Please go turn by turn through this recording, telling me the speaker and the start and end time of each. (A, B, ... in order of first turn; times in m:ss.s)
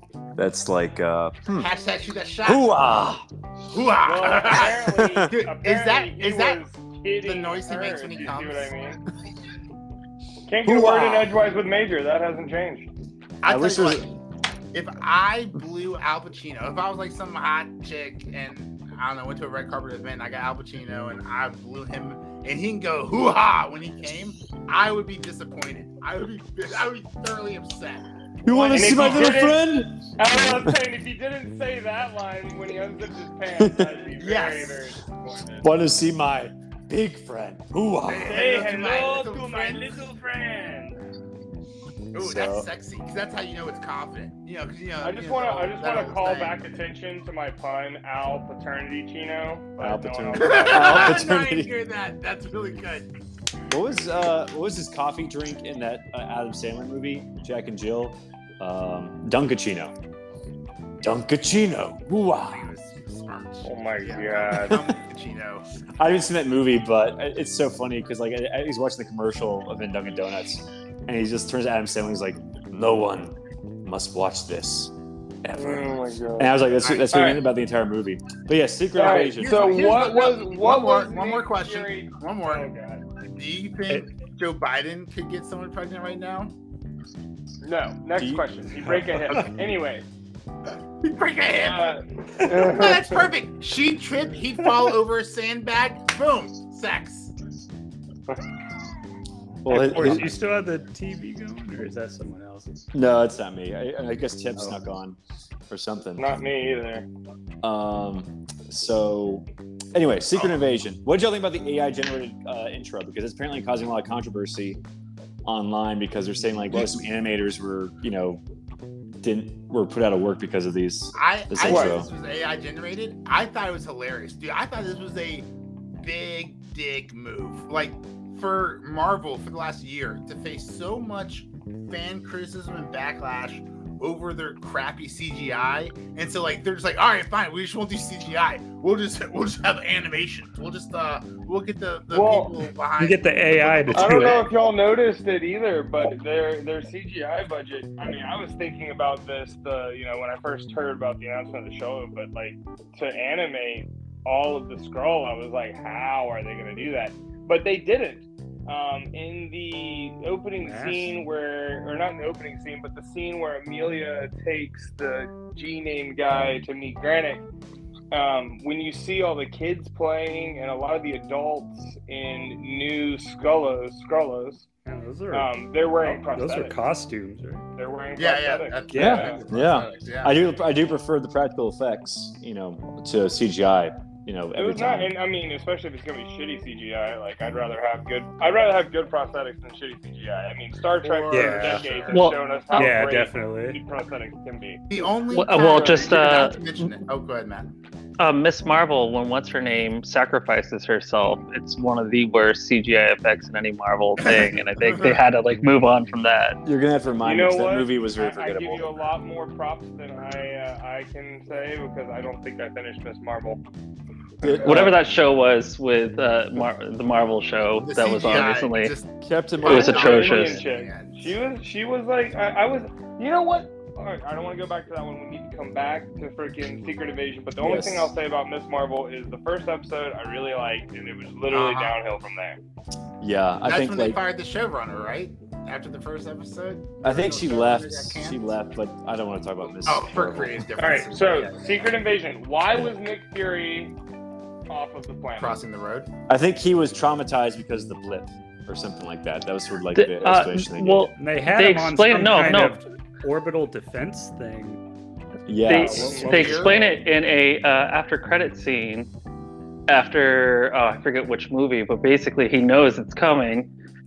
0:00.4-0:01.7 A
0:01.6-0:06.6 B
0:02.4-0:03.3 A
0:04.0-0:09.0 C
0:04.8-0:05.3 A
0:07.2-0:08.7 B
0:10.5-0:12.9 C
0:10.6-0:11.3 A
0:13.4-0:14.2 B
0:13.4-0:14.1 A
0:14.7-0:28.1 B
0:28.4-0:30.7 A
0:28.5-0:29.6 C
0:28.6-0:29.5 B
0:30.2-0:35.7 C
0:33.6-0:33.9 A
0:34.1-0:34.9 B
0:35.6-0:38.6 A
0:38.0-0:40.0 B
0:38.2-0:41.0 C
0:42.1-0:46.6 B
0:42.2-0:42.7 A
0:45.0-0:51.1 C
0:49.8-0:51.7 A
0:50.4-0:53.1 B
0:53.7-0:59.9 A
1:01.0-1:02.7 A
1:02.4-1:05.7 B
1:03.6-1:04.8 C
1:04.7-1:05.0 A
1:06.0-1:19.9 A
1:15.6-1:16.5 C
1:16.8-1:17.1 B
1:17.1-1:17.4 C
1:19.0-1:23.0 C
1:19.0-1:22.6 B
1:23.3-1:26.5 B
1:27.6-1:30.0 C
1:28.2-1:28.5 A
1:31.0-1:37.3 B
1:31.6-1:33.2 C
1:39.6-1:40.4 A
1:39.7-1:42.8 D
1:42.9-1:45.2 A
1:45.7-1:46.3 A
1:46.2-1:47.1 C
1:47.6-1:54.8 A
1:55.5-1:58.4 A
1:56.7-1:57.0 B
1:59.2-2:02.1 A
2:01.2-2:05.5 B
2:01.6-2:02.0 C
2:06.0-2:24.5 B
2:22.1-2:22.6 C
2:23.0-2:24.5 D
2:23.9-2:47.4 C
2:40.6-2:41.2 D
2:48.1-2:54.7 C
2:54.9-2:57.6 D
2:55.3-2:56.8 C
2:57.8-2:59.4 C
2:58.2-3:00.6 B
2:58.9-2:59.3 D
2:58.9-3:05.1 A
3:04.6-3:14.9 C
3:11.0-3:12.2 B
3:11.3-3:11.9 D
3:12.1-3:13.0 E
3:12.7-3:13.8 D
3:14.9-3:17.7 B
3:15.3-3:16.9 E
3:15.5-3:15.8 C
3:18.2-3:26.6 E
3:24.3-3:25.2 B
3:26.6-3:29.0 A
3:27.2-3:33.6 C
3:34.4-3:35.0 A
3:34.6-3:39.0 E
3:37.8-3:39.1 B
3:39.2-3:40.3 A
3:39.6-3:41.4 B
3:39.6-3:40.6 E
3:39.7-3:52.6 C
3:47.6-3:48.1 A
3:51.5-3:52.0 B
3:53.2-3:54.2 A
3:53.6-3:58.6 B
3:57.0-4:00.7 A
3:59.8-4:02.0 B
4:00.8-4:04.0 C
4:04.7-4:05.6 C
4:05.4-4:06.1 B
4:06.3-4:11.1 A
4:09.9-4:12.8 E
4:11.2-4:14.8 D
4:15.5-4:16.4 A
4:15.7-4:19.1 E
4:15.7-4:16.7 D
4:15.8-4:17.0 B
4:16.1-4:16.6 C
4:19.9-4:23.7 E